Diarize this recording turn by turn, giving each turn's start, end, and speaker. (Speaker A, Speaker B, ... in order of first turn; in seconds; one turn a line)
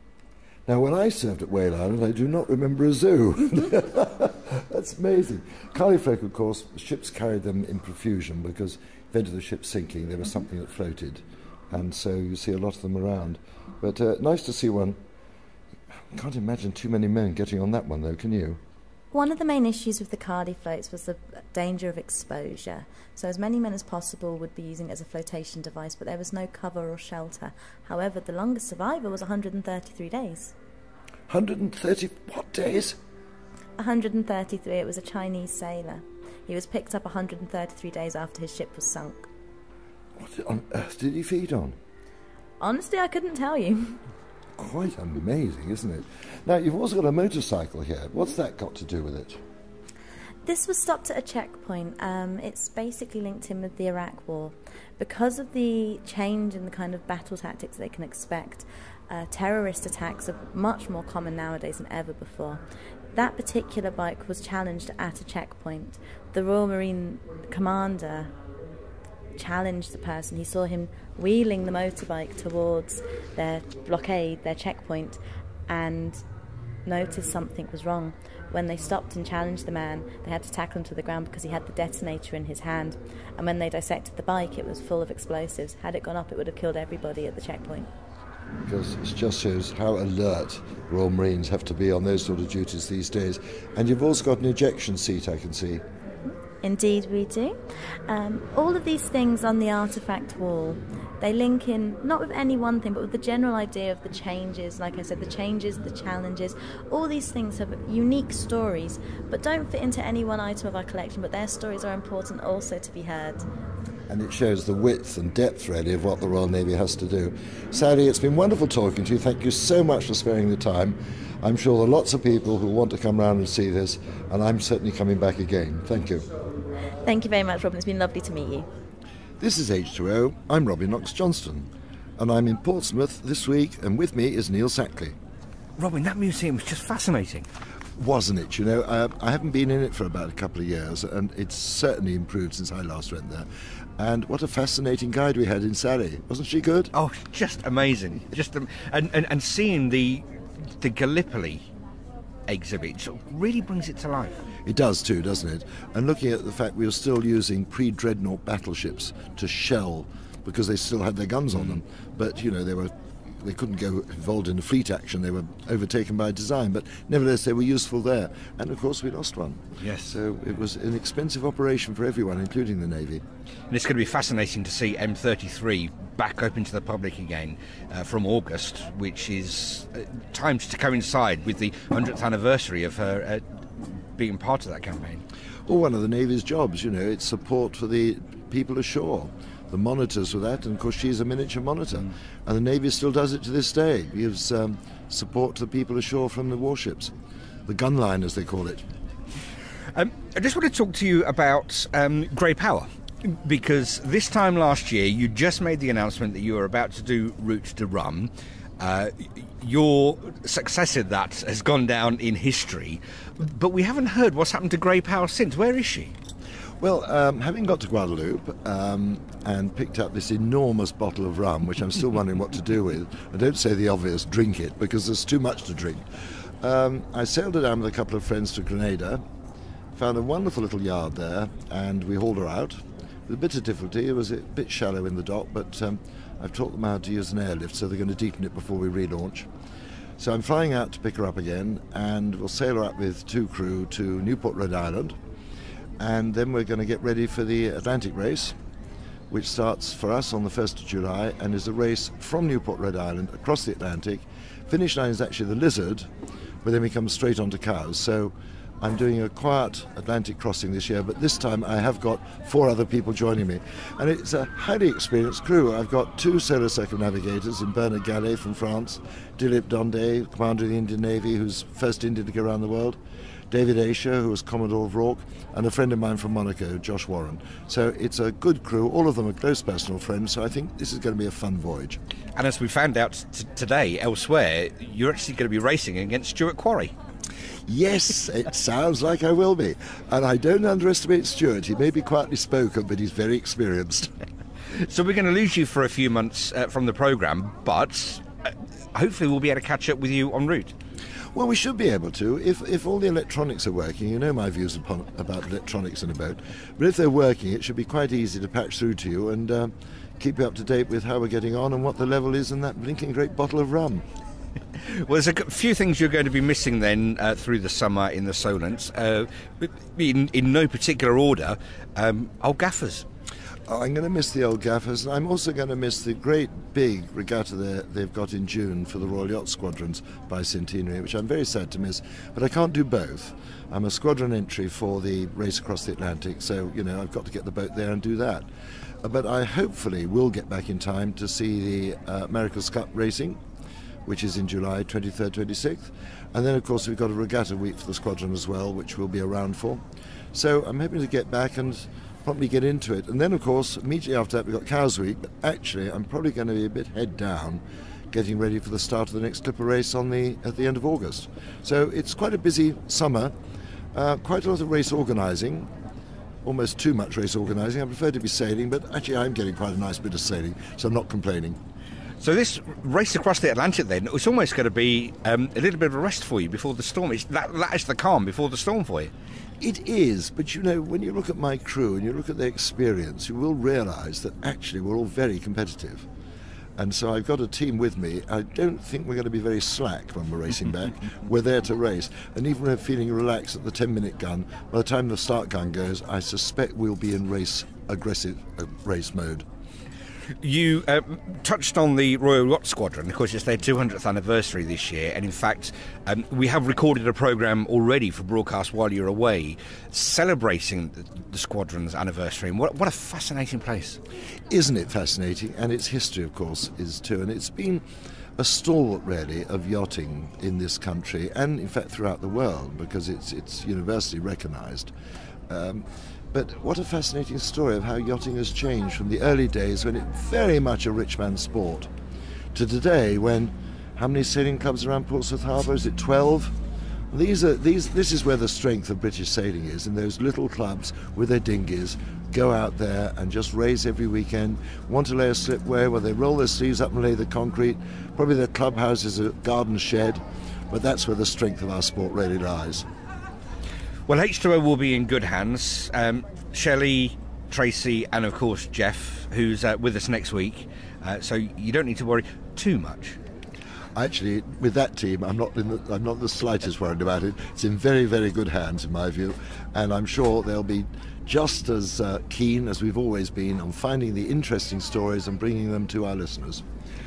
Speaker A: 0.7-15.0
Speaker A: 16.1-18.6
Speaker B: 19.1-30.5
Speaker A: 31.3-33.0
Speaker B: 33.8-39.3
Speaker A: 40.2-41.8
Speaker B: 42.6-44.0
Speaker A: 44.6-49.4
Speaker B: 50.5-62.6
Speaker B: 63.1-68.3
Speaker B: 69.4-76.2
Speaker B: 76.9-87.9
Speaker A: 88.6-95.8
Speaker B: 96.6-97.6
Speaker B: 98.1-113.4
Speaker A: 114.1-126.3
Speaker B: 127.0-128.7
Speaker A: 129.4-135.2
Speaker C: 135.8-137.5
Speaker A: 138.0-143.5
Speaker A: 144.0-146.9
Speaker C: 146.9-150.3
Speaker C: 150.8-151.7
Speaker C: 152.5-154.4
Speaker A: 154.7-173.2
Speaker C: 161.6-161.8
Speaker C: 169.8-170.2
Speaker C: 173.7-183.5
Speaker C: 184.2-185.2
Speaker A: 185.7-197.1
Speaker A: 197.7-198.8
Speaker C: 199.9-216.1
Speaker A: 216.8-226.1
Speaker A: 226.6-229.2
Speaker A: 229.9-239.5
Speaker A: 240.2-245.2
Speaker A: 246.0-248.6
Speaker A: 249.3-256.1
Speaker A: 256.6-273.0
Speaker A: 273.5-282.0
Speaker C: 282.4-286.9
Speaker A: 287.7-294.2
Speaker C: 294.8-300.7
Speaker A: 301.3-314.1
Speaker C: 314.8-323.1
Speaker A: 323.7-338.5
Speaker A: 339.0-343.4
Speaker A: 344.1-363.4
Speaker A: 363.9-365.7
Speaker A: 366.4-371.6
Speaker C: 372.2-379.1
Speaker A: 379.6-386.1
Speaker A: 386.8-399.5
Speaker C: 400.4-414.0
Speaker A: 414.5-417.8
Speaker A: 418.4-424.9
Speaker A: 425.5-431.9
Speaker A: 432.5-436.6
Speaker A: 437.1-452.9
Speaker C: 454.1-463.2
Speaker A: 463.9-476.6